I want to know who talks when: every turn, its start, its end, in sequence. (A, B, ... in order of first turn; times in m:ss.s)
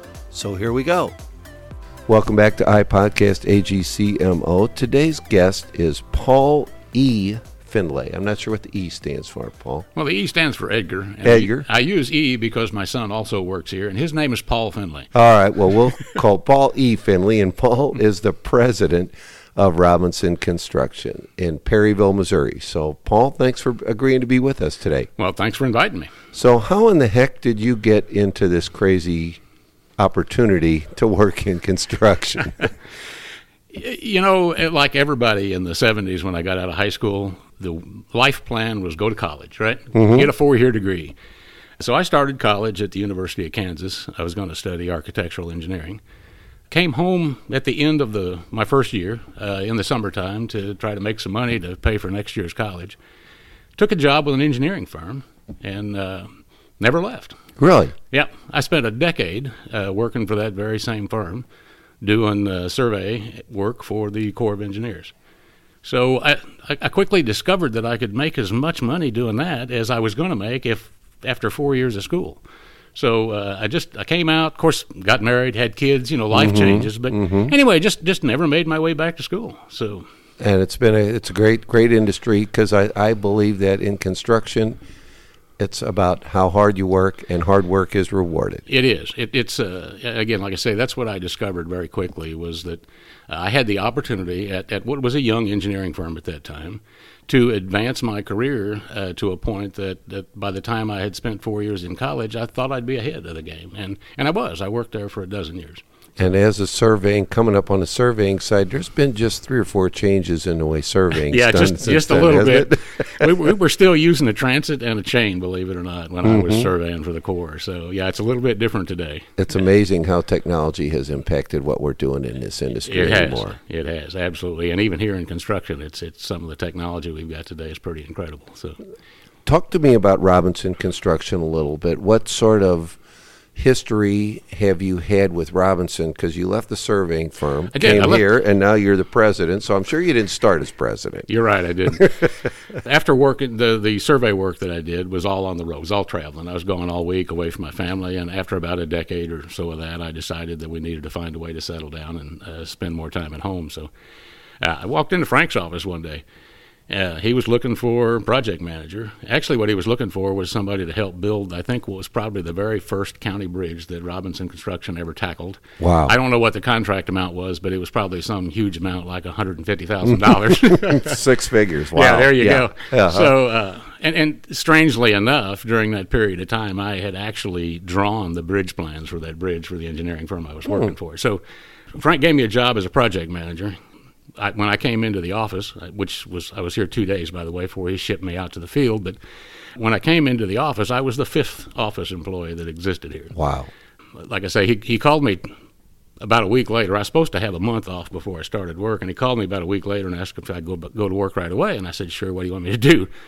0:00.3-0:01.2 A
0:02.1-0:09.9 A
0:10.0-0:15.1 B
0:11.2-0:11.7 A
0:15.1-0:25.1 A
0:25.2-0:26.1 B
0:26.3-0:29.4 A
0:30.0-0:32.7 A
0:33.7-0:41.2 B
0:39.9-0:40.3 A
0:41.8-0:46.0 B
0:46.7-0:53.0 B
0:53.8-0:56.3 B
0:56.8-0:57.4 B
0:57.6-0:57.9 A
0:58.1-1:01.4 B
1:02.0-1:05.1 B
1:05.8-1:12.4 B
1:13.0-1:20.1 B
1:16.3-1:17.5 A
1:20.4-1:24.8 A
1:25.6-1:28.6 A
1:28.7-1:45.8 B
1:46.2-1:53.3 A
1:51.2-1:59.3 B
1:56.2-1:56.7 A
1:59.4-2:03.6 A
2:02.9-2:08.8 B
2:09.5-2:13.0 A
2:13.6-2:21.3 A
2:17.7-2:18.3 B
2:21.3-2:33.9 B
2:34.6-2:36.2 B
2:36.9-2:51.2 B
2:45.8-2:46.2 A
2:50.5-2:53.4 A
2:52.0-3:03.8 B
3:00.7-3:00.9 A
3:04.4-3:09.2 B
3:09.8-3:13.4 B
3:13.4-3:13.7 A
3:14.2-3:15.5 B
3:16.2-3:23.1 B